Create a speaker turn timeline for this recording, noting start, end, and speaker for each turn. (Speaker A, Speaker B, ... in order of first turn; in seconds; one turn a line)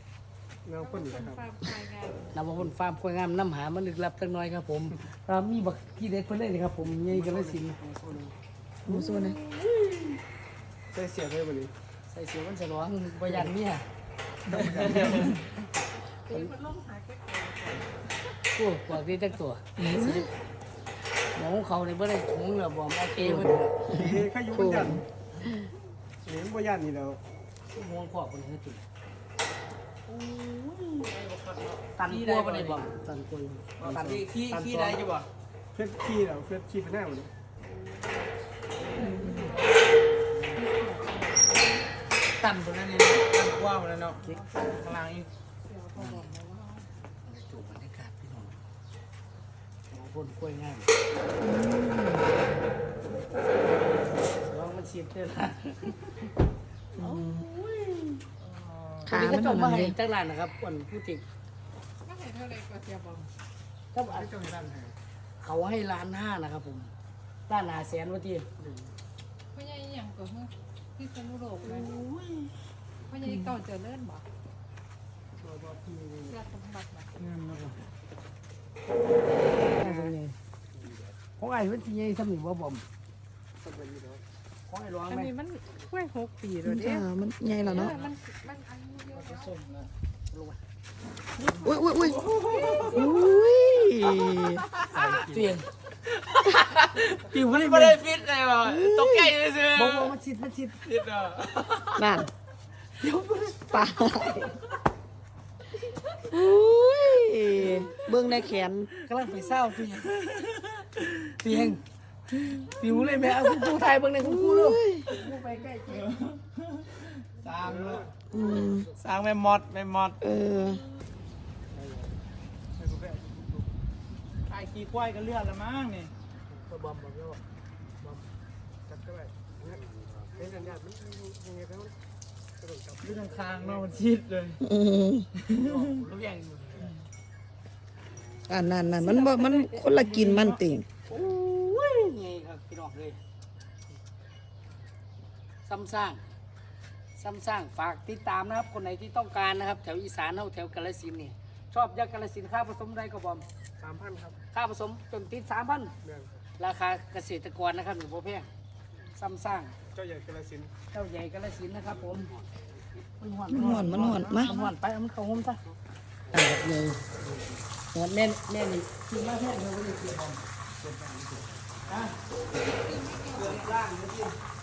Speaker A: 0.7-1.5
Speaker B: 0.8-2.3
Speaker C: 2.3-7.8
Speaker A: 7.0-8.3
Speaker D: 8.9-9.4
Speaker C: 8.9-10.2
Speaker A: 10.9-11.7
Speaker C: 12.1-13.8
Speaker A: 14.5-15.3
Speaker C: 14.8-15.4
Speaker E: 15.1-15.3
Speaker B: 16.2-18.4
Speaker C: 18.6-20.3
Speaker D: 19.8-20.3
Speaker C: 21.3-23.9
Speaker A: 23.9-25.0
Speaker D: 24.5-25.0
Speaker A: 26.2-27.2
Speaker C: 27.7-28.8
Speaker E: 30.1-32.9
Speaker C: 32.0-35.0
Speaker E: 33.8-35.3
Speaker A: 35.7-37.3
Speaker B: 38.9-39.9
Speaker B: 40.5-41.9
Speaker E: 42.4-45.3
Speaker B: 44.2-44.9
Speaker B: 45.6-46.9
Speaker C: 47.2-48.6
Speaker C: 49.9-50.9
Speaker D: 51.4-52.3
Speaker C: 54.3-56.1
Speaker D: 57.0-57.4
Speaker C: 57.0-58.2
Speaker A: 58.5-59.0
Speaker D: 59.1-60.0
Speaker C: 59.1-61.2
Speaker B: 62.0-63.3
Speaker C: 63.9-64.3
Speaker A: 64.0-65.0
Speaker C: 65.4-66.9
Speaker C: 67.5-68.5
Speaker A: 68.6-68.9
Speaker B: 69.5-71.9
Speaker E: 72.0-72.5
Speaker B: 73.1-74.2
Speaker C: 73.3-73.5
Speaker A: 75.4-76.4
Speaker B: 76.3-77.1
Speaker E: 77.2-77.7
Speaker A: 79.6-80.2
Speaker C: 79.7-80.3
Speaker C: 81.4-82.8
Speaker A: 83.6-84.2
Speaker C: 84.7-85.3
Speaker B: 85.1-87.1
Speaker D: 86.6-88.0
Speaker B: 87.7-89.7
Speaker E: 89.2-89.9
Speaker C: 90.3-90.6
Speaker E: 91.5-93.1
Speaker D: 91.6-92.2
Speaker B: 92.4-93.4
Speaker D: 92.8-94.7
Speaker E: 94.8-95.4
Speaker C: 94.9-95.7
Speaker E: 96.1-100.1
Speaker C: 97.2-98.0
Speaker D: 98.7-99.3
Speaker C: 99.7-100.9
Speaker E: 100.9-102.1
Speaker D: 102.0-102.3
Speaker C: 103.0-103.9
Speaker D: 103.7-104.6
Speaker D: 106.3-108.9
Speaker C: 109.0-110.5
Speaker C: 111.2-111.8
Speaker C: 112.6-116.1
Speaker D: 113.2-113.6
Speaker D: 114.2-115.1
Speaker E: 116.2-118.1
Speaker A: 117.6-118.1
Speaker D: 118.3-118.9
Speaker E: 119.0-120.2
Speaker D: 120.2-120.8
Speaker C: 121.8-122.0
Speaker A: 122.8-123.7
Speaker E: 124.5-126.1
Speaker A: 126.5-127.4
Speaker C: 126.7-127.2
Speaker A: 128.9-129.8
Speaker A: 130.3-131.9
Speaker A: 132.6-134.1
Speaker E: 133.0-134.6
Speaker D: 134.6-135.3
Speaker E: 135.4-136.0
Speaker C: 135.5-136.9
Speaker D: 138.5-140.9
Speaker B: 139.1-139.8
Speaker E: 140.0-140.5
Speaker C: 141.1-143.2
Speaker C: 145.7-146.2
Speaker C: 147.2-153.5
Speaker A: 153.8-154.4
Speaker C: 154.5-155.9
Speaker A: 156.0-156.4
Speaker C: 156.6-158.5
Speaker C: 159.2-159.8
Speaker A: 159.9-160.7
Speaker C: 160.9-162.3
Speaker C: 163.2-165.6
Speaker D: 163.5-164.6
Speaker C: 166.3-167.0
Speaker A: 167.2-167.5
Speaker C: 167.9-170.4
Speaker A: 170.8-171.6
Speaker C: 171.9-172.2
Speaker B: 172.6-173.6
Speaker C: 173.3-174.3